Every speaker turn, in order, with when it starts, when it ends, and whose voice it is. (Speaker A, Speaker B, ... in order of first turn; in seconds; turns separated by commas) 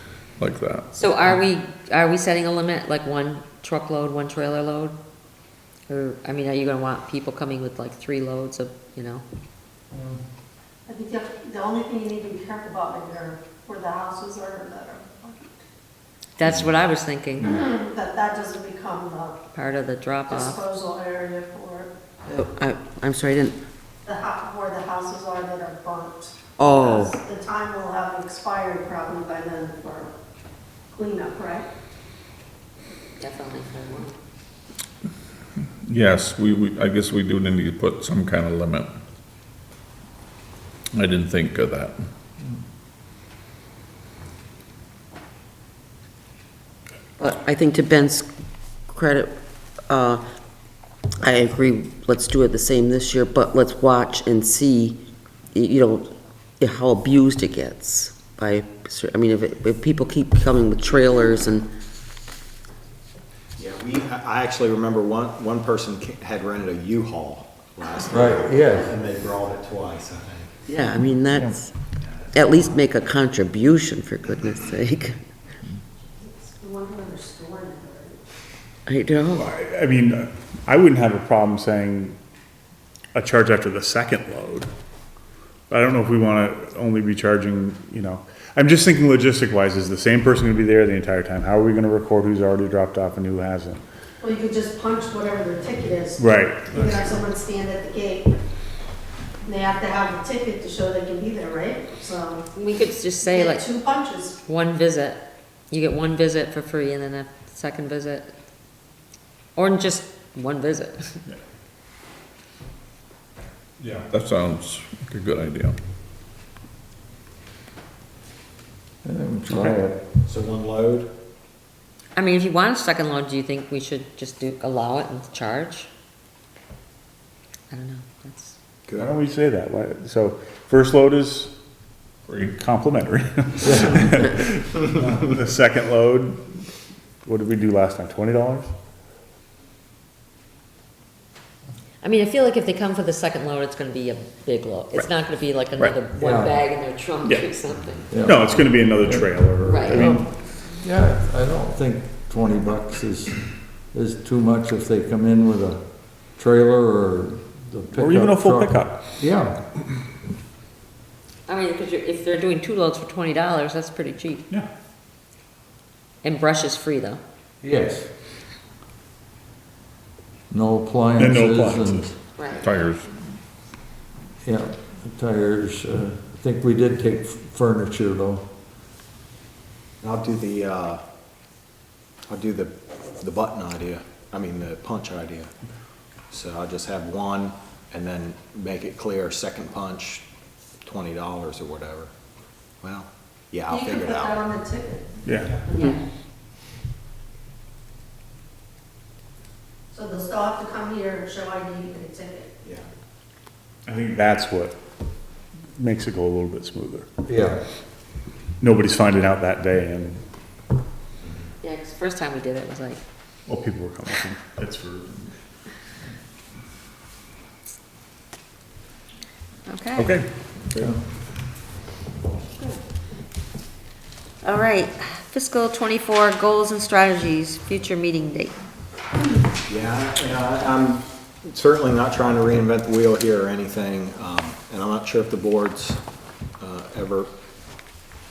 Speaker A: 0.4-0.9, Speaker B: 0.9-5.0, Speaker B: 5.9-9.2, Speaker C: 10.8-15.6, Speaker B: 16.4-17.6, Speaker C: 17.5-19.4, Speaker B: 19.5-20.6, Speaker C: 20.3-21.9, Speaker D: 22.3-23.6, Speaker C: 24.1-30.1, Speaker D: 26.6-27.2, Speaker C: 30.9-31.7, Speaker B: 33.2-34.2, Speaker A: 35.9-38.9, Speaker A: 40.9-42.0, Speaker D: 47.2-48.3, Speaker D: 48.9-49.3, Speaker D: 49.9-50.2, Speaker D: 51.2-55.0, Speaker D: 55.5-61.7, Speaker E: 63.6-70.6, Speaker F: 68.1-68.9, Speaker D: 70.7-71.7, Speaker E: 72.0-72.7, Speaker D: 72.3-75.2, Speaker C: 76.2-78.2, Speaker D: 78.9-79.5, Speaker G: 79.3-82.2, Speaker G: 83.1-84.7, Speaker G: 85.7-93.8, Speaker C: 94.2-96.2, Speaker G: 96.2-97.1, Speaker C: 96.8-98.3, Speaker C: 99.4-102.5, Speaker B: 102.5-103.7, Speaker C: 103.3-104.4, Speaker B: 104.5-108.3, Speaker B: 109.5-111.2, Speaker G: 113.8-114.1, Speaker A: 114.1-115.8, Speaker F: 119.0-120.0, Speaker G: 119.5-119.8, Speaker E: 120.2-121.1, Speaker B: 122.1-125.9, Speaker B: 127.7-128.6, Speaker G: 128.9-131.5, Speaker A: 132.3-132.5, Speaker G: 132.5-136.4, Speaker F: 133.6-134.1, Speaker G: 137.2-138.7, Speaker B: 142.0-148.1, Speaker F: 146.2-146.6, Speaker G: 147.2-147.5, Speaker F: 148.1-159.6, Speaker G: 148.1-150.3, Speaker B: 149.6-150.1, Speaker G: 157.9-159.1, Speaker B: 161.5-164.5, Speaker B: 166.2-167.2, Speaker F: 167.6-168.1, Speaker F: 170.5-172.2, Speaker G: 171.2-172.1, Speaker B: 172.4-172.7, Speaker A: 172.6-173.2, Speaker F: 174.4-178.5, Speaker E: 180.0-181.0, Speaker E: 182.3-185.5, Speaker E: 186.3-190.2, Speaker E: 190.8-192.1, Speaker E: 192.8-194.5, Speaker C: 193.7-194.9, Speaker G: 195.2-195.6, Speaker B: 195.7-196.0, Speaker C: 199.9-202.5, Speaker G: 203.8-204.8, Speaker G: 205.8-207.1, Speaker F: 207.2-207.6, Speaker G: 208.6-210.2, Speaker B: 211.6-213.0, Speaker G: 213.5-215.3, Speaker B: 219.7-220.2, Speaker G: 219.9-220.9, Speaker B: 224.4-228.5, Speaker E: 229.7-236.0, Speaker E: 236.6-237.3